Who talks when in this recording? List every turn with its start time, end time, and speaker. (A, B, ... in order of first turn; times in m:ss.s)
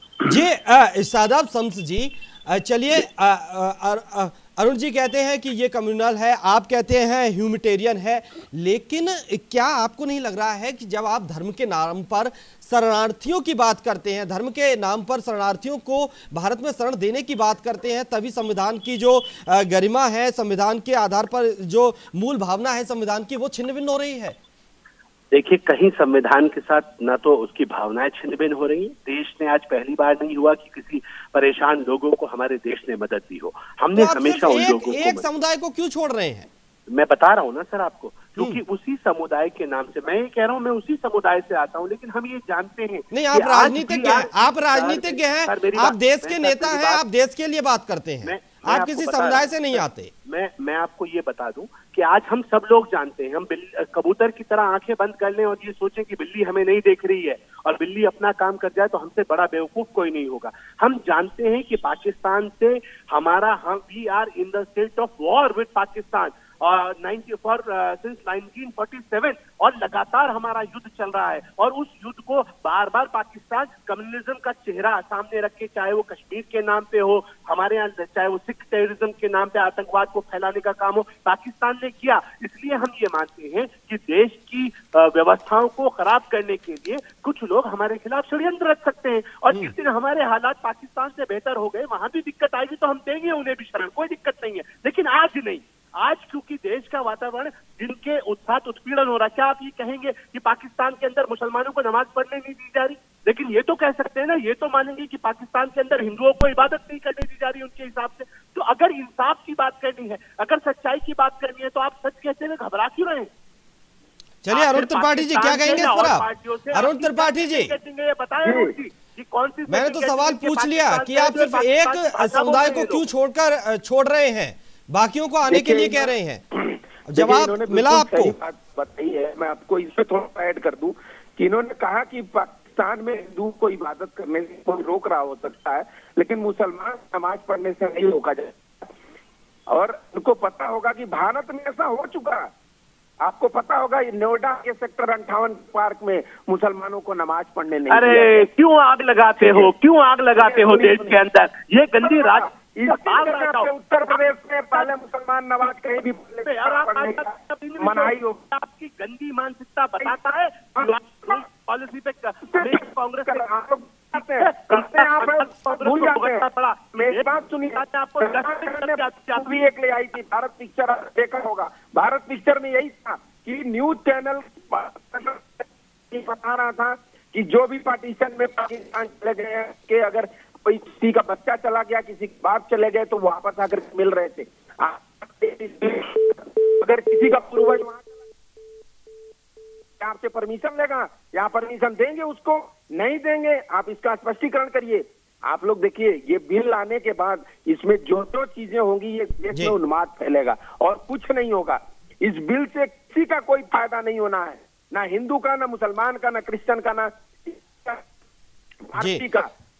0:00.2-0:24.4 A
0:25.3-0:35.2 B
0:33.9-0:36.5 A
0:36.9-0:47.0 B
0:43.1-0:50.1 A
0:48.2-1:53.3 B
1:54.4-1:57.7 A
1:54.5-2:03.0 B
1:58.4-1:58.7 C
1:59.7-2:06.4 A
2:05.5-2:18.6 C
2:07.1-2:08.3 A
2:19.7-2:22.5 C
2:23.2-2:28.5 C
2:27.9-2:34.2 B
2:29.4-2:29.7 C
2:30.3-2:31.2 C
2:32.0-2:37.3 C
2:36.4-2:43.4 B
2:37.8-2:38.4 C
2:40.8-2:41.4 C
2:42.5-3:08.1 C
2:44.2-2:49.6 B
3:10.0-3:28.0 C
3:28.8-3:29.5 C
3:29.0-3:29.2 A